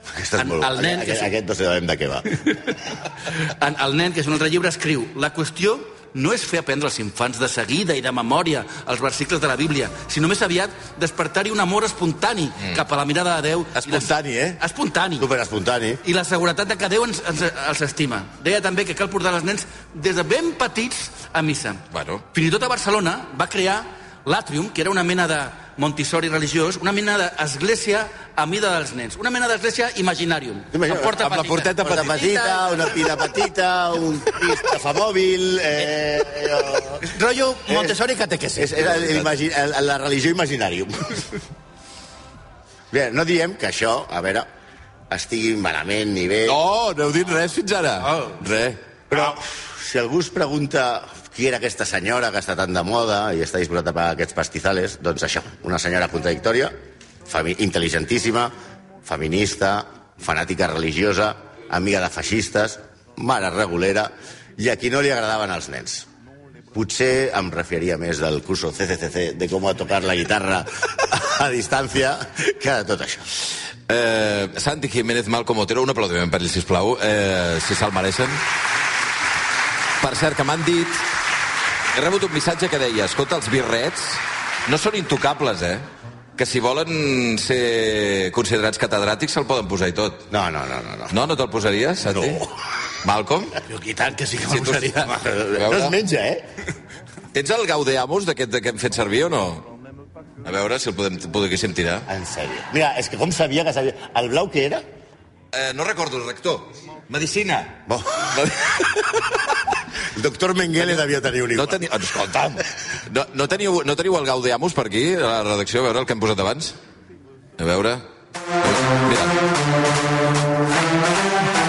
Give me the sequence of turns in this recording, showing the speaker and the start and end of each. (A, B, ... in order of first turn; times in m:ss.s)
0:00.2-0:02.2 A
0:00.4-0:01.3 B
0:02.3-0:02.8 B
0:03.3-0:15.3 B
0:13.8-0:14.6 C
0:15.2-0:16.0 A
0:16.0-0:32.9 B
0:21.9-0:22.2 C
0:30.7-0:31.2 A
0:31.1-0:32.4 C
0:31.7-0:37.0 A
0:37.0-0:38.9 B
0:37.7-0:37.9 A
0:38.6-0:41.4 A
0:42.9-0:44.5 A
0:45.1-0:46.6 A
0:46.4-0:48.8 C
0:48.0-0:48.4 B
0:49.1-0:56.7 A
0:57.2-0:58.5 A
0:59.0-1:06.1 A
1:06.7-1:13.3 A
1:13.9-1:18.4 C
1:20.0-1:21.0 C
1:21.9-1:25.8 C
1:26.4-1:30.2 C
1:30.3-1:31.2 A
1:31.1-1:32.4 C
1:32.1-1:32.4 A
1:33.0-1:33.6 C
1:33.7-1:35.2 B
1:34.5-1:34.8 C
1:35.0-1:36.4 A
1:35.6-1:36.0 C
1:37.3-1:39.7 C
1:40.4-1:42.1 C
1:42.1-1:44.8 A
1:45.5-1:49.2 C
1:47.9-1:48.4 A
1:50.1-1:51.8 A
1:51.5-1:56.8 C
1:57.6-1:58.0 C
1:58.6-1:59.4 C